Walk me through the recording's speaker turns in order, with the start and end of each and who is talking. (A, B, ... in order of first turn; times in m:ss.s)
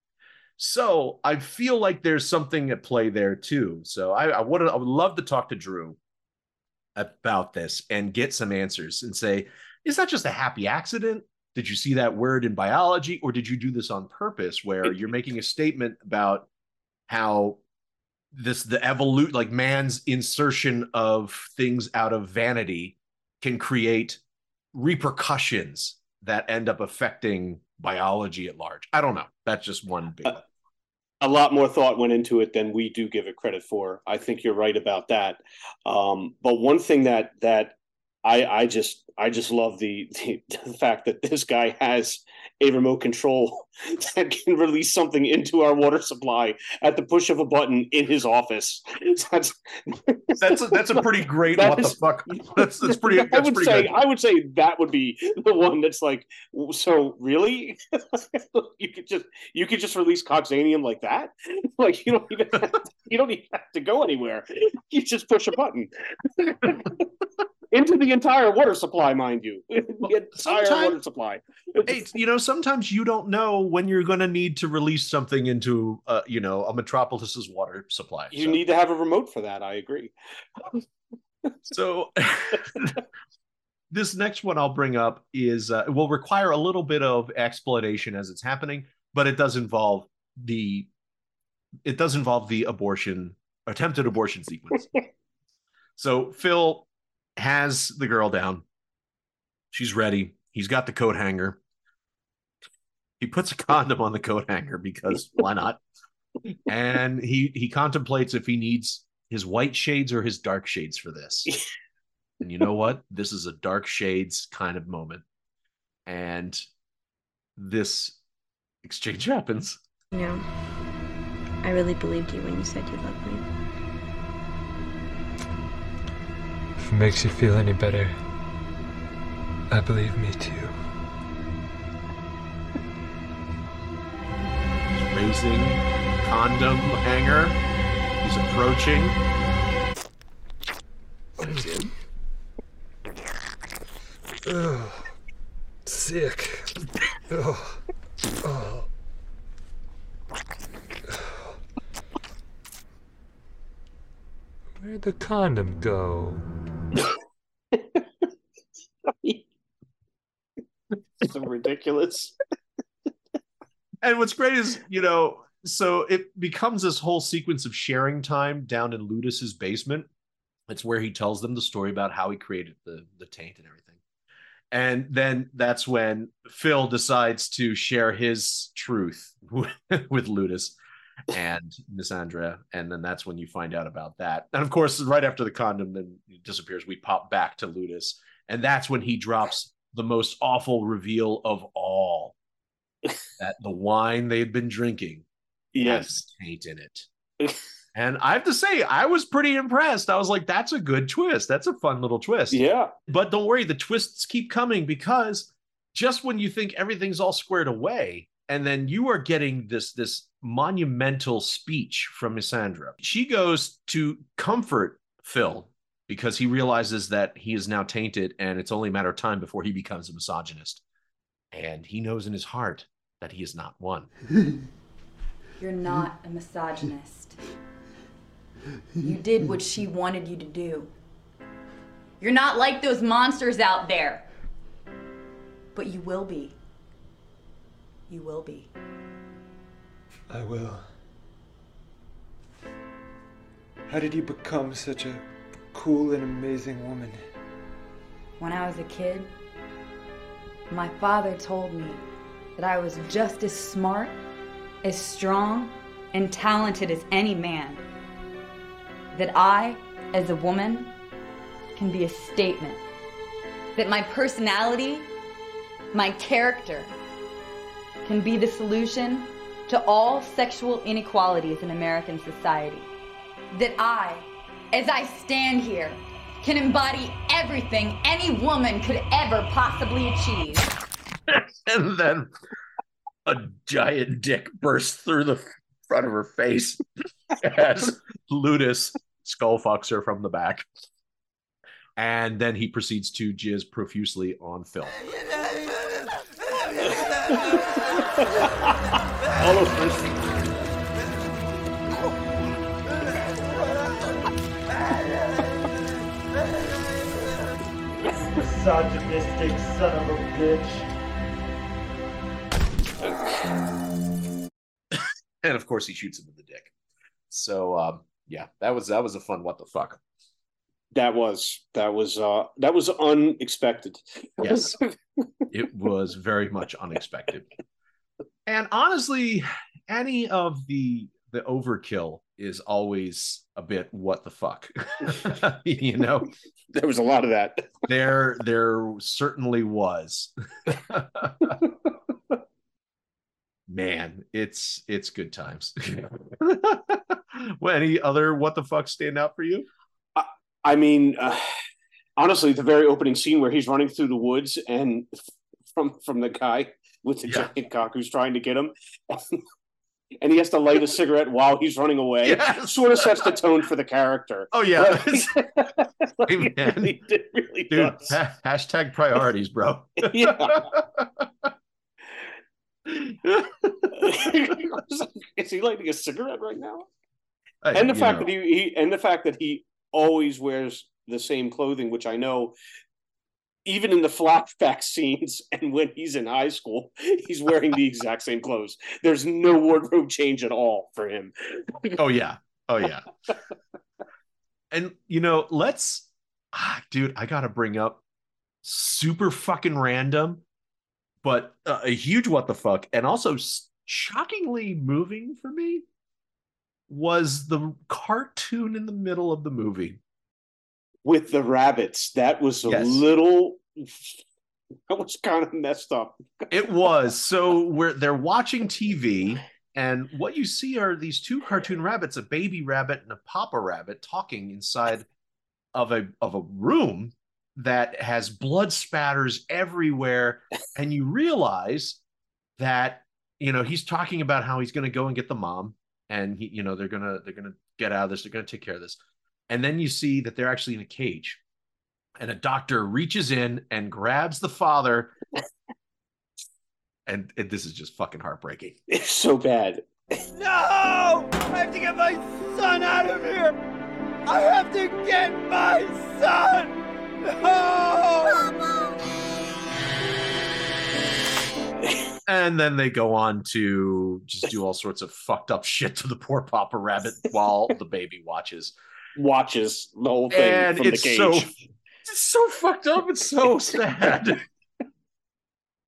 0:00.6-0:06.0 A
0:07.0-0:16.5 A
0:17.1-0:17.6 A
0:18.3-0:24.2 A
0:24.7-0:30.4 A
0:31.2-1:07.0 B
0:50.4-0:54.0 A
1:07.7-1:11.9 B
1:10.4-1:11.0 A
1:11.9-1:18.6 A
1:18.3-1:20.1 B
1:21.7-1:23.0 A
1:23.9-1:30.9 A
1:31.8-1:34.9 A
1:36.0-1:38.6 A
1:39.7-1:41.6 A
1:43.2-1:45.8 A
1:46.7-1:51.5 A
1:52.4-1:55.2 A
1:56.1-1:56.6 A
1:57.6-1:58.2 A
1:58.8-1:59.8 A
2:00.1-2:00.4 C
2:01.6-2:03.4 C
2:06.8-2:08.2 D
2:09.7-2:10.8 D
2:14.9-2:17.6 A
2:18.2-2:19.2 A
2:21.4-2:21.7 D
2:24.4-2:25.1 D
2:25.8-2:26.7 D
2:27.3-2:27.8 D
2:28.4-2:28.9 D
2:34.8-2:36.4 D
2:37.8-2:38.0 B
2:41.2-2:42.3 B
2:44.0-2:50.1 A
2:50.7-2:54.0 A
2:54.7-3:00.8 A
3:01.3-3:12.4 A
3:13.4-3:15.2 A
3:15.8-3:16.1 B
3:15.8-3:17.1 A
3:18.0-3:40.8 A
3:22.5-3:22.9 B
3:41.5-3:44.1 A
3:45.6-3:47.4 E
3:49.0-3:50.9 E
3:52.2-3:54.2 E
3:55.8-3:56.6 E
3:58.1-3:58.7 E
4:06.0-4:07.2 F
4:08.4-4:09.3 E
4:10.7-4:12.0 E
4:12.6-4:14.2 E
4:14.8-4:17.8 E
4:19.1-4:20.9 E
4:21.8-4:22.8 E
4:23.8-4:25.1 E
4:25.9-4:26.9 E
4:28.0-4:32.9 E
4:33.5-4:40.7 E
4:41.3-4:42.3 A
4:43.2-4:46.8 A
4:47.4-4:50.6 A
4:52.0-4:55.0 A
4:57.3-4:57.6 B
4:58.2-4:58.5 B
4:59.3-5:00.3 B
5:08.4-5:10.9 F
5:13.0-5:13.5 B
5:15.4-5:16.7 A
5:17.3-5:20.0 A
5:20.9-5:24.9 B
5:24.4-5:24.8 A
5:25.5-5:27.5 A
5:28.5-5:36.3 A
5:36.8-5:37.8 B
5:37.9-5:41.6 A
5:43.7-5:49.7 A
5:50.1-5:51.5 B
5:52.2-5:55.1 B
5:55.7-5:59.4 B
5:57.2-5:57.5 A
6:00.2-6:08.1 B
6:02.2-6:03.3 A
6:04.5-6:05.3 A
6:06.3-6:07.0 A
6:07.7-6:11.2 A
6:10.0-6:10.7 B
6:12.9-6:14.1 A
6:14.0-6:16.9 B
6:17.6-6:18.3 A
6:17.7-6:22.5 B
6:23.6-6:32.0 B
6:32.0-6:33.1 A
6:34.7-6:38.0 A
6:38.6-6:40.4 A
6:41.2-6:45.8 A
6:46.9-6:50.0 A
6:51.0-6:54.1 B
6:52.6-6:53.0 A
6:54.9-6:56.2 B
6:56.5-7:05.1 A
7:05.7-7:12.0 A
7:12.6-7:19.0 A
7:19.5-7:21.4 A
7:22.2-7:25.1 A
7:27.1-7:28.8 A
7:28.9-7:29.9 B
7:30.4-7:33.6 G
7:34.3-7:38.7 G
7:42.3-7:48.7 A
7:49.2-7:51.5 B
7:50.3-7:51.5 A
7:52.1-7:54.4 A